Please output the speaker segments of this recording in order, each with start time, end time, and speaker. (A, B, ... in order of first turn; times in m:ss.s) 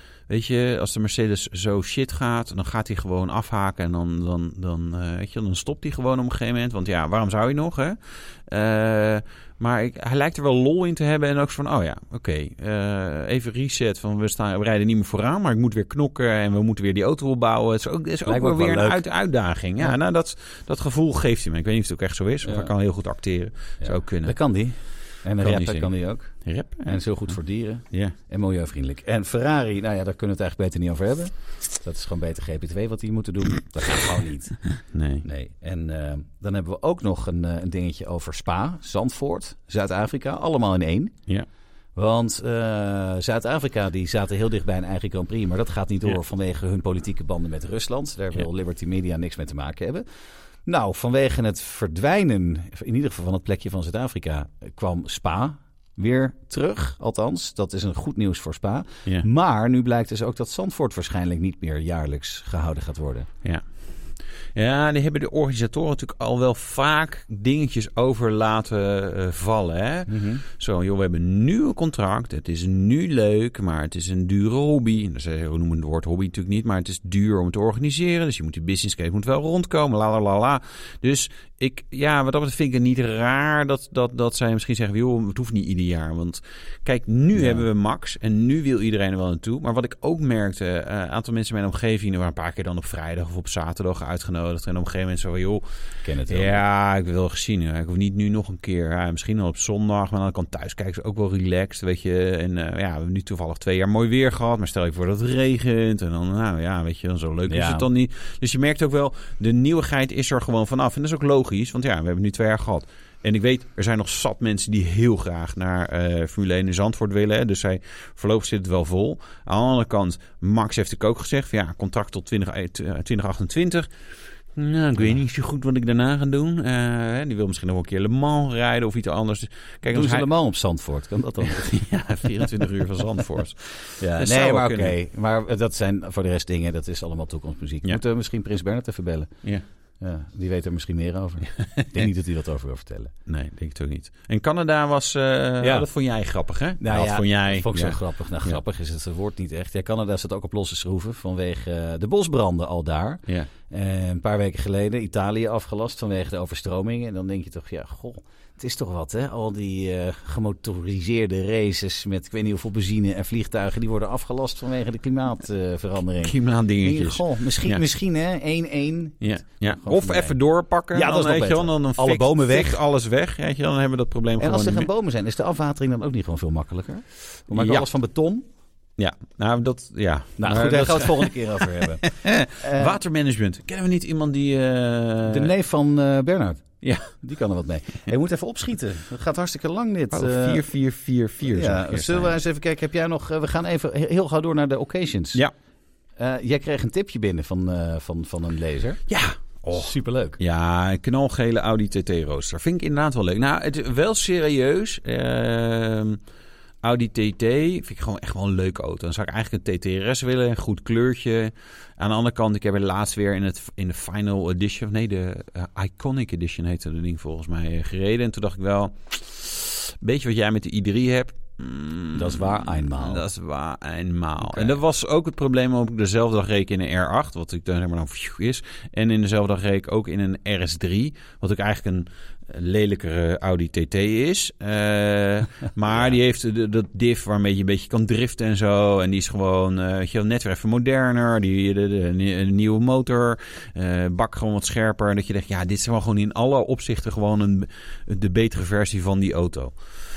0:00.3-0:24.4 A
0:18.2-0:19.0 B
0:22.4-0:22.7 B
0:23.8-0:34.7 B
0:25.4-0:25.9 A
0:26.4-0:27.4 A
0:34.8-0:35.3 A
0:35.2-0:41.1 B
0:42.0-0:50.0 B
0:50.6-1:03.3 B
1:04.6-1:35.6 A
1:10.1-1:10.4 B
1:27.4-1:27.7 B
1:36.0-1:36.6 B
1:36.3-2:03.9 A
1:47.5-1:47.9 B
2:04.5-2:10.3 A
2:09.9-2:11.8 B
2:11.4-2:15.0 A
2:14.0-2:19.3 B
2:20.0-2:23.1 B
2:23.3-2:28.6 A
2:25.6-2:25.9 B
2:26.8-2:50.4 B
2:46.2-2:47.8 A
2:49.2-2:54.9 A
2:50.9-2:52.8 B
2:54.4-2:58.4 B
2:57.5-2:57.9 A
2:59.0-3:05.5 A
3:00.4-3:03.0 B
3:05.3-3:10.6 B
3:06.8-3:07.1 A
3:10.1-3:12.4 A
3:11.4-3:15.4 B
3:16.2-3:19.0 B
3:19.1-3:26.2 A
3:19.7-3:20.4 B
3:26.8-4:09.8 A
3:42.2-3:43.2 B